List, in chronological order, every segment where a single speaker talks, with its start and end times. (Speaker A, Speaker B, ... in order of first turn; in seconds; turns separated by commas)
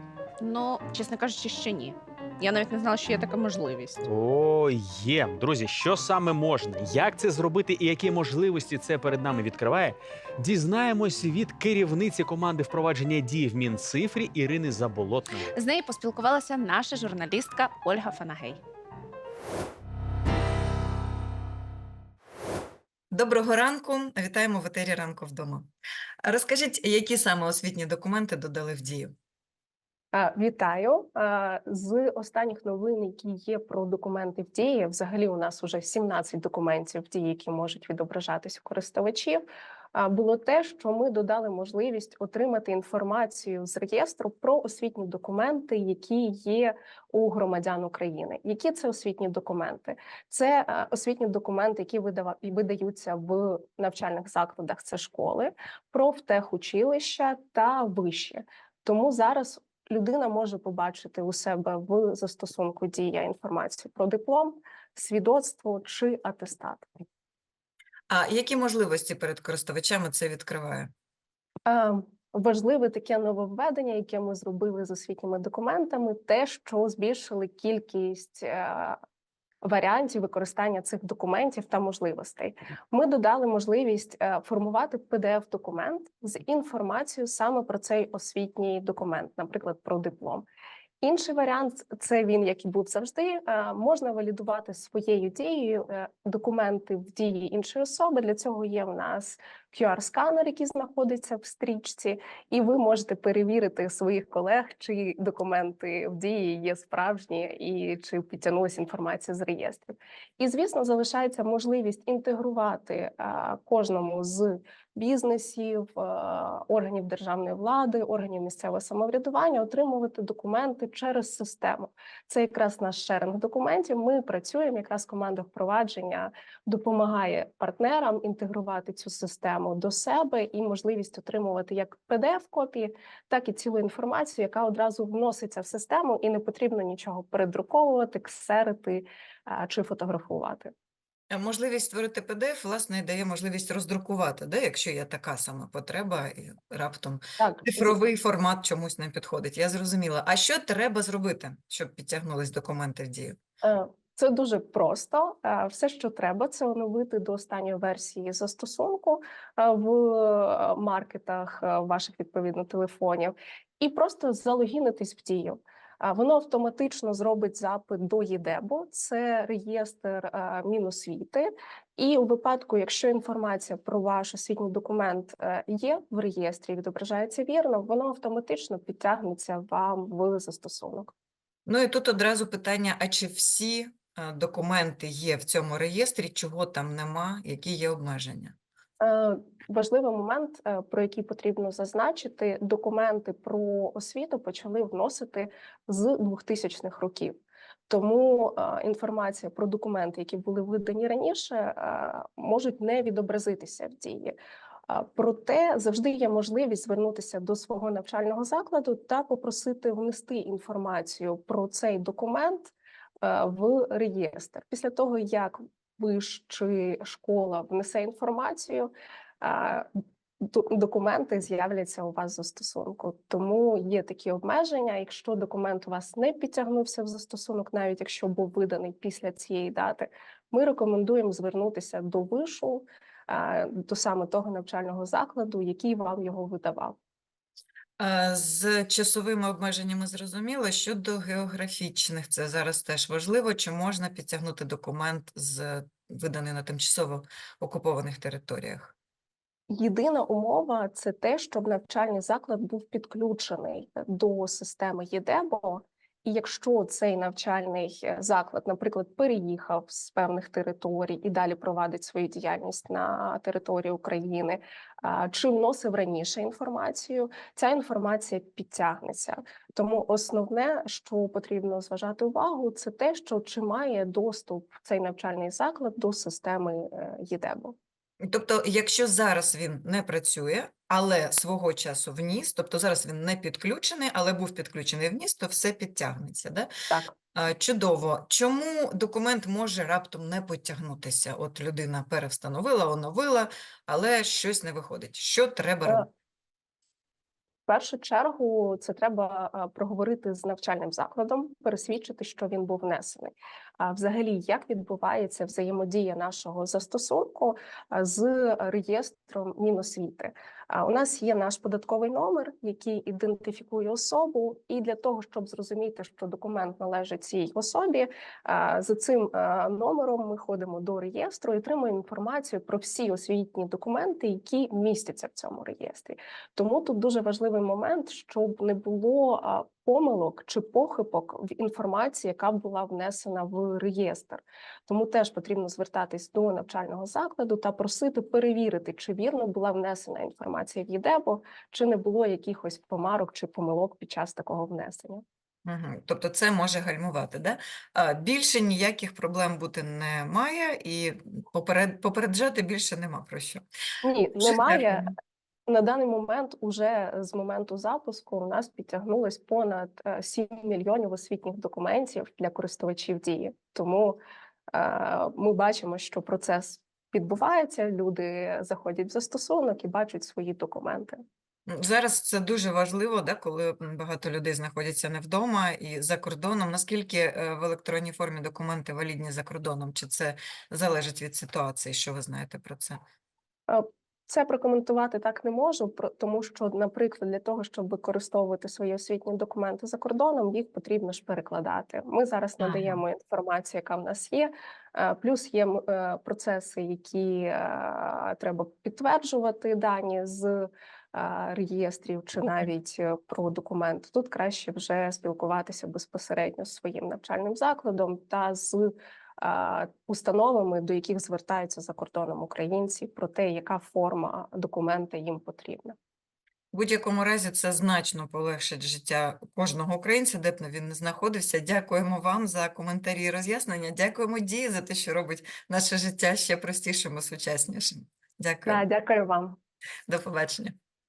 Speaker A: 0.4-4.0, Speaker B: 4.0-15.5, Speaker A: 15.5-18.6, Speaker C: 23.1-25.7, Speaker C: 26.2-29.1, Speaker D: 30.1-66.9, Speaker C: 68.1-70.9, Speaker D: 71.7-79.0, Speaker D: 79.6-90.5, Speaker D: 91.0-140.7, Speaker C: 141.3-153.4, Speaker D: 147.4-148.0, Speaker D: 153.6-181.1, Speaker C: 181.7-188.6, Speaker D: 189.0-197.4, Speaker D: 197.9-204.3, Speaker D: 204.9-219.9, Speaker D: 220.4-237.0, Speaker C: 238.0-248.9, Speaker D: 249.7-277.8, Speaker C: 278.2-286.7, Speaker D: 286.9-287.1, Speaker C: 287.4-296.1, Speaker D: 297.7-345.2, Speaker C: 345.6-353.6, Speaker D: 354.0-355.1, Speaker C: 354.4-355.1, Speaker D: 355.7-364.2, Speaker D: 364.7-371.2, Speaker C: 371.7-383.0, Speaker D: 383.7-416.0, Speaker C: 392.6-393.0, Speaker C: 416.7-428.8, Speaker D: 428.7-429.6, Speaker C: 430.1-430.8